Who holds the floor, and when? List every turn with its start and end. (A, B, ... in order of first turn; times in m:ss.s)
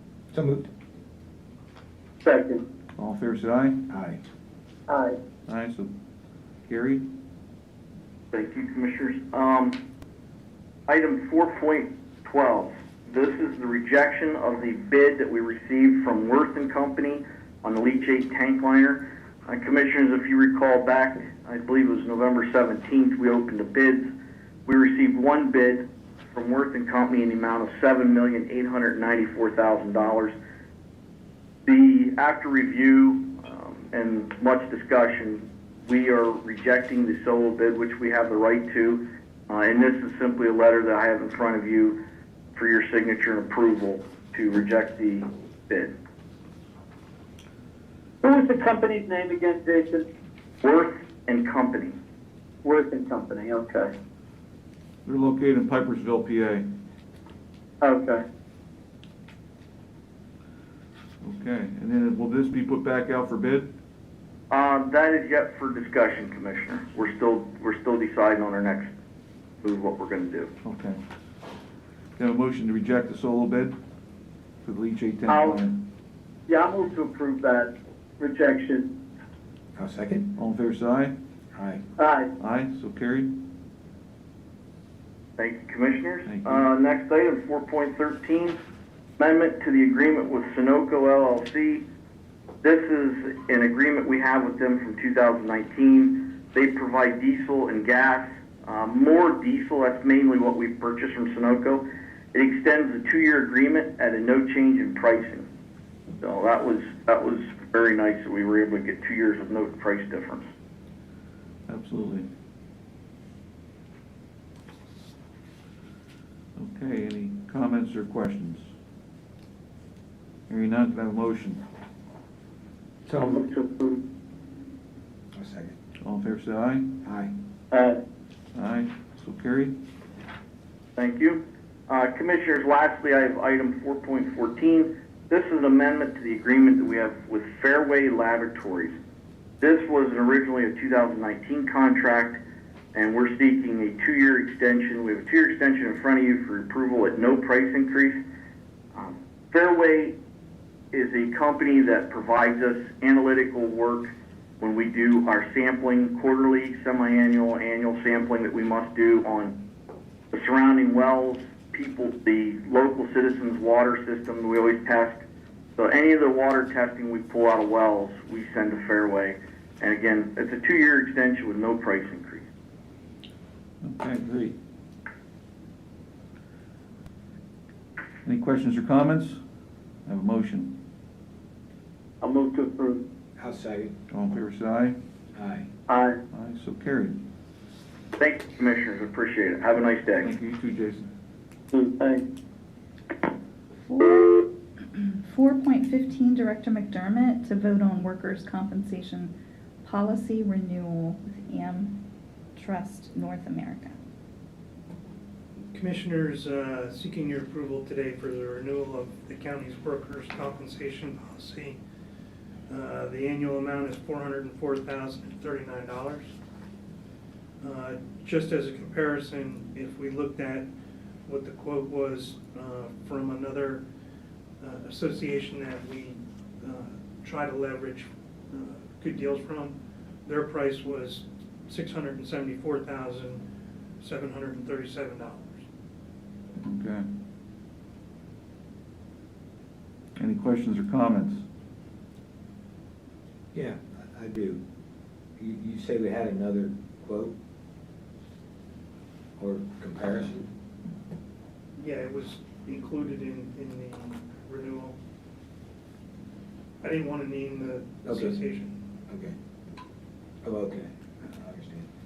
0:00.3-0:00.6 A
0:02.2-0:02.6 B
0:03.0-0:03.8 C
0:03.9-0:04.2 A
0:04.9-0:05.2 B
0:05.5-0:05.9 C
0:06.7-0:07.1 C
0:08.3-0:09.8 D
0:10.9-0:24.1 D
0:24.6-0:30.3 D
0:31.6-0:42.0 D
0:42.5-0:45.9 D
0:48.2-0:50.1 B
0:50.6-0:52.0 D
0:52.6-0:53.9 B
0:55.0-0:56.6 C
0:57.8-0:58.2 B
1:01.2-1:03.7 C
1:04.5-1:08.9 D
1:09.6-1:10.5 D
1:10.6-1:11.0 C
1:12.2-1:13.7 C
1:14.6-1:15.8 C
1:15.3-1:15.6 B
1:16.5-1:18.9 B
1:19.8-1:20.3 A
1:20.4-1:21.1 C
1:21.5-1:21.8 A
1:22.0-1:22.3 B
1:22.4-1:23.4 C
1:25.4-1:28.6 D
1:26.2-1:26.7 C
1:29.2-1:31.8 D
1:32.6-1:45.4 D
1:46.2-1:50.5 D
1:51.7-1:52.3 C
1:56.6-1:58.7 C
2:00.5-2:01.6 C
2:03.1-2:03.4 A
2:03.2-2:04.0 B
2:05.3-2:05.7 A
2:06.0-2:07.0 C
2:07.0-2:07.3 A
2:07.7-2:08.0 B
2:08.5-2:09.7 C
2:11.0-2:18.9 D
2:19.6-2:22.4 D
2:22.9-2:28.2 D
2:28.9-2:30.2 D
2:30.9-2:39.6 D
2:40.3-2:45.2 D
2:45.8-2:52.4 D
2:53.8-2:54.5 C
2:58.2-2:59.4 C
3:00.0-3:00.8 C
3:02.2-3:03.0 B
3:03.4-3:03.9 A
3:04.1-3:05.0 C
3:05.3-3:05.7 A
3:05.9-3:06.2 B
3:06.3-3:07.2 C
3:08.2-3:10.3 D
3:10.2-3:11.1 C
3:11.7-3:12.2 B
3:13.9-3:14.4 E
3:15.0-3:22.0 E
3:22.6-3:23.9 E
3:25.7-3:31.8 F
3:32.7-3:36.3 F
3:37.6-3:40.7 F
3:41.3-3:43.8 F
3:44.6-3:53.4 F
3:54.0-3:55.6 F
3:56.6-3:57.0 C
4:00.2-4:01.4 C
4:03.5-4:04.6 A
4:05.4-4:07.3 A
4:09.4-4:10.5 A
4:11.8-4:15.0 F
4:16.8-4:18.8 F
4:18.0-4:18.4 A
4:19.1-4:19.3 A
4:20.4-4:21.8 A